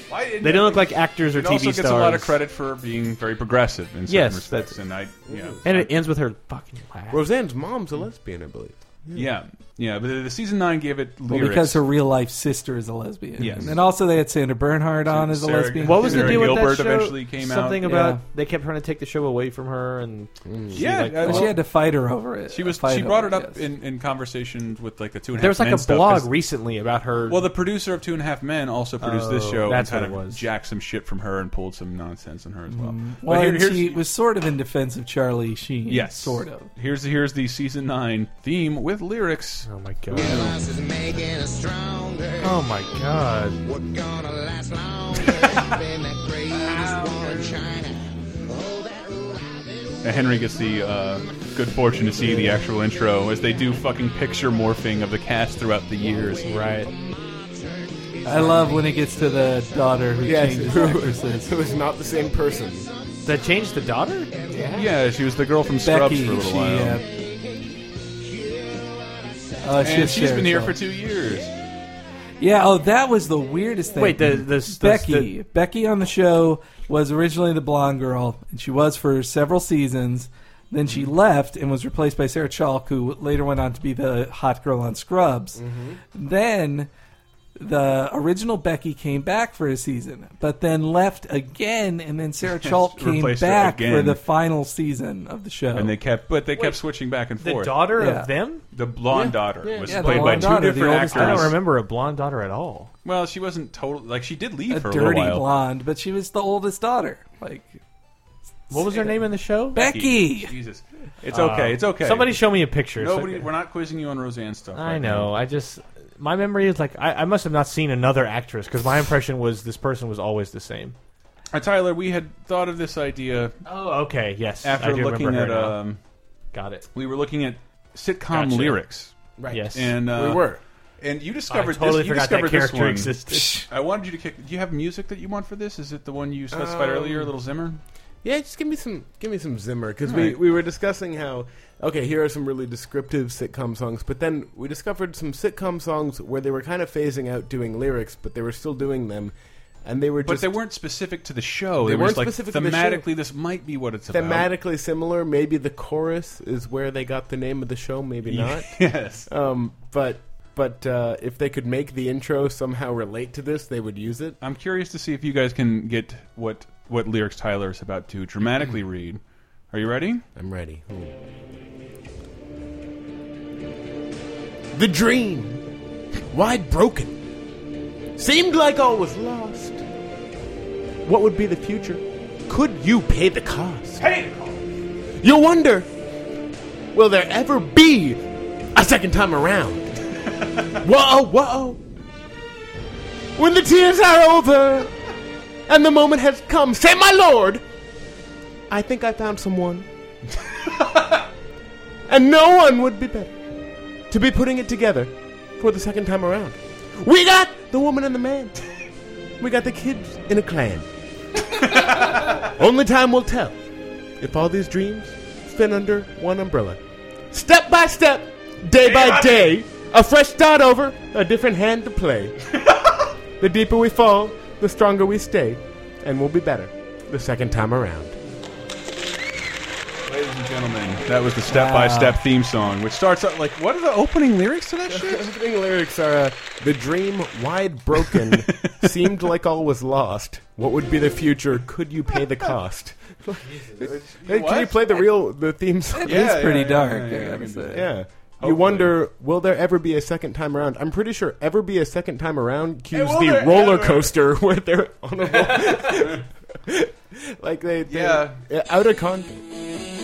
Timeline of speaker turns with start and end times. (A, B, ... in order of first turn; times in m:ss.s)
0:00.1-0:05.9 A
0:00.4-0:02.4 B
0:04.1-0:04.8 B
0:05.3-0:05.6 C
0:05.6-0:07.2 B
0:07.1-0:09.3 C
0:09.1-0:11.8 A
0:11.3-0:16.7 D
0:13.4-0:13.8 A
0:15.1-0:17.9 A
0:15.8-0:21.5 B
0:17.8-0:18.2 D
0:20.4-0:20.8 C
0:20.7-0:21.6 A
0:21.2-0:23.6 D
0:22.5-0:26.3 A
0:25.4-0:27.5 B
0:27.3-0:34.0 A
0:29.0-0:30.4 B
0:32.7-0:36.7 D
0:35.9-0:40.6 A
0:39.7-0:40.4 B
0:40.7-0:42.3 E
0:42.4-0:43.6 B
0:43.7-0:47.7 E
0:45.2-0:45.8 A
0:46.5-0:47.6 A
0:48.4-0:49.7 E
0:50.0-0:56.6 A
0:56.5-0:56.9 B
0:57.1-0:57.7 E
0:58.2-1:01.5 D
0:58.3-0:59.7 E
1:00.2-1:02.9 C
1:03.2-1:04.7 B
1:04.3-1:04.7 E
1:04.7-1:07.0 A
1:05.8-1:07.0 D
1:07.0-1:09.8 E
1:09.6-1:10.8 D
1:09.8-1:11.5 A
1:12.4-1:25.6 D
1:14.0-1:15.3 B
1:25.6-1:26.0 C
1:26.1-1:26.9 D
1:27.6-1:36.0 D
1:32.5-1:34.2 A
1:35.7-1:37.9 A
1:37.4-1:38.6 B
1:38.0-1:38.3 D
1:38.7-1:41.6 A
1:39.1-1:40.5 C
1:39.8-1:41.6 D
1:40.1-1:42.9 B
1:43.0-1:45.4 A
1:44.7-1:47.8 D
1:48.7-1:49.8 B
1:49.7-1:50.6 D
1:49.8-1:52.4 A
1:51.3-1:53.5 B
1:53.0-1:55.3 A
1:54.7-2:01.0 B
2:01.5-2:03.5 A
2:03.6-2:05.8 B
2:04.6-2:06.0 A
2:06.5-2:06.9 B
2:06.9-2:09.1 A
2:08.3-2:08.8 B
2:09.4-2:10.6 C
2:09.5-2:10.0 B
2:09.7-2:17.8 A
2:11.5-2:13.7 B
2:16.5-2:17.3 C
2:18.2-2:30.6 C
2:20.0-2:20.4 A
2:30.2-2:34.5 A
2:31.8-2:33.1 C
2:34.1-2:44.4 C
2:38.3-2:39.3 A
2:44.4-2:50.2 A
2:50.4-2:51.2 C
2:54.7-2:55.6 C
2:56.3-2:57.2 C
2:58.2-2:59.8 C
3:01.0-3:04.0 C
3:04.0-3:04.6 B
3:05.2-3:05.9 C
3:06.9-3:08.2 C
3:08.8-3:10.0 C
3:10.7-3:11.8 C
3:13.4-3:14.9 C
3:15.7-3:17.6 C
3:18.7-3:19.9 C
3:22.1-3:23.4 C
3:24.1-3:28.6 C
3:29.4-3:30.9 C
3:31.7-3:32.1 A
3:31.8-3:33.6 C
3:34.2-3:36.8 C
3:37.3-3:42.4 C
3:38.8-3:39.5 A
3:43.4-3:48.2 C
3:50.0-3:55.3 A
3:51.5-3:52.2 D
3:54.9-4:06.5 C
3:58.3-3:58.8 A
4:03.4-4:03.8 B
4:03.8-4:05.0 A
4:05.9-4:07.9 D
4:06.0-4:09.0 A
4:07.7-4:19.4 C
4:12.9-4:14.1 A
4:15.3-4:16.2 A
4:17.9-4:18.4 A